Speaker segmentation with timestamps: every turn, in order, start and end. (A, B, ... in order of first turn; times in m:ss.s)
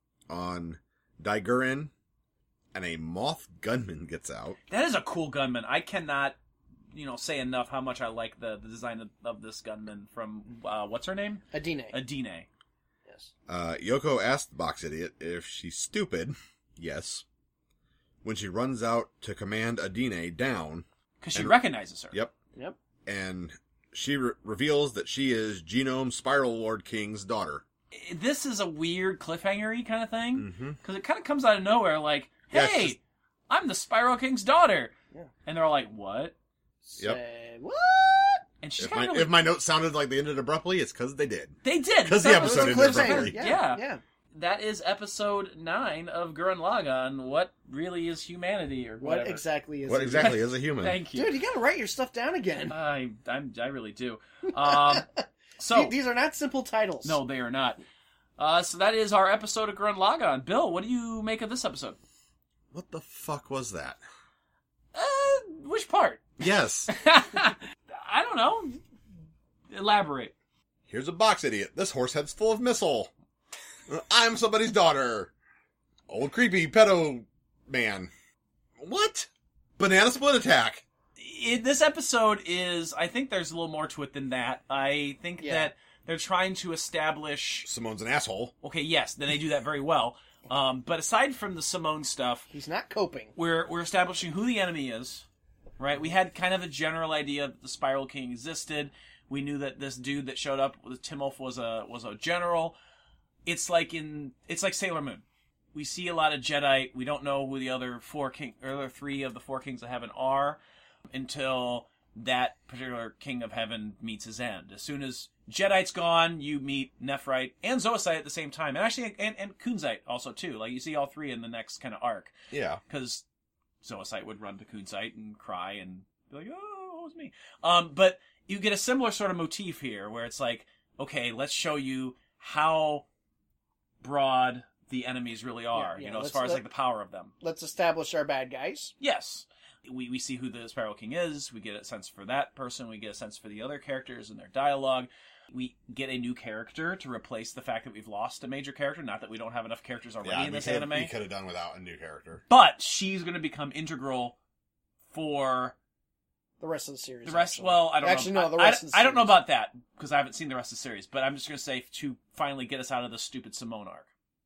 0:00.3-0:01.9 A
0:02.7-0:04.6 A
0:04.7-0:06.4 B
0:06.9-0:12.5 B
0:11.5-0:12.0 C
0:13.5-0:17.2 A
0:18.2-0:21.6 A
0:21.2-0:22.2 B
0:23.0-0:27.6 A
0:27.9-0:34.9 B
0:30.4-0:30.8 A
0:32.5-0:33.0 A
0:35.5-0:36.4 B
0:36.8-0:38.4 C
0:38.6-0:39.4 B
0:38.8-0:43.4 A
0:41.6-0:49.4 B
0:42.3-0:44.0 C
0:49.0-0:50.4 C
0:49.9-0:51.0 A
0:50.2-0:51.3 B
0:51.1-0:52.8 C
0:52.7-0:55.1 B
0:54.7-0:55.2 C
0:55.6-0:55.9 B
0:55.7-0:57.2 C
0:57.0-0:57.8 B
0:58.4-1:02.0 B
1:02.7-1:04.0 A
1:04.9-1:08.8 B
1:06.4-1:06.9 A
1:09.7-1:10.3 B
1:10.9-1:13.1 A
1:13.9-1:15.3 A
1:16.1-1:18.1 A
1:18.8-1:20.8 A
1:21.2-1:27.7 B
1:25.4-1:25.7 C
1:27.7-1:28.5 A
1:28.6-1:32.5 B
1:32.5-1:33.3 C
1:33.4-1:35.3 B
1:35.8-1:42.8 B
1:43.5-1:50.6 B
1:51.1-2:02.3 B
2:02.5-2:02.8 A
2:02.9-2:03.2 B
2:03.8-2:13.0 B
2:14.0-2:17.3 B
2:15.8-2:16.6 C
2:17.4-2:18.9 C
2:19.0-2:31.1 B
2:30.2-2:32.4 A
2:32.5-2:34.4 B
2:35.1-2:35.8 B
2:36.6-2:39.4 C
2:37.2-2:44.1 B